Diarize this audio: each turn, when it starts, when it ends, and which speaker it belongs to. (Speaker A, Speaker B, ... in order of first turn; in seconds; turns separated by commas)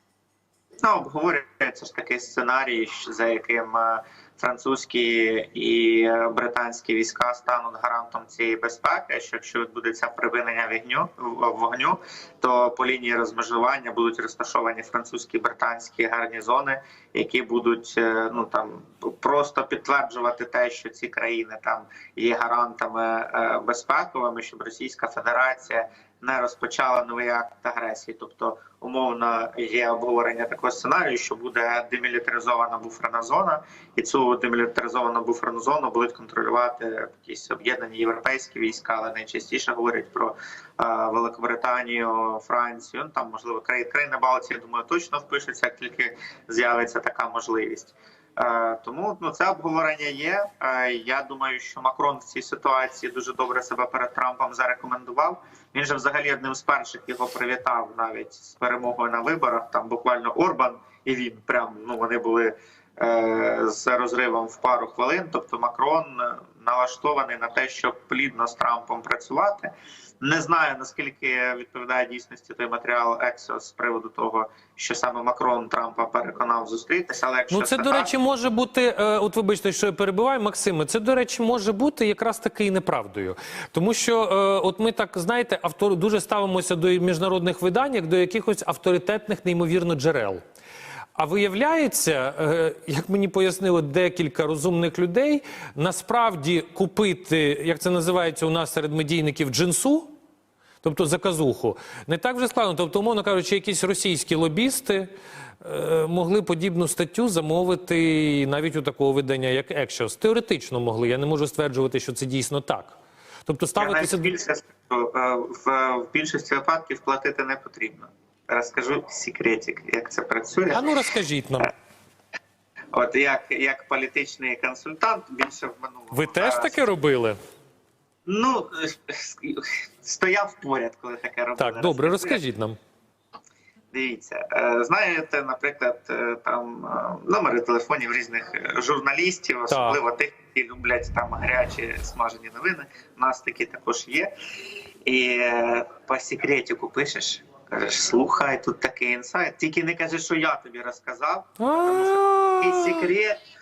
Speaker A: 0.8-78.1, Speaker B: 77.5-90.4, Speaker B: 91.2-100.1, Speaker B: 100.8-105.1, Speaker B: 105.6-114.3, Speaker A: 113.8-120.9, Speaker B: 120.7-121.7, Speaker A: 122.9-126.8, Speaker B: 126.1-127.4, Speaker A: 128.2-132.4, Speaker B: 131.6-132.8, Speaker A: 133.9-144.3, Speaker B: 139.7-140.0, Speaker A: 145.0-153.3, Speaker B: 151.6-153.1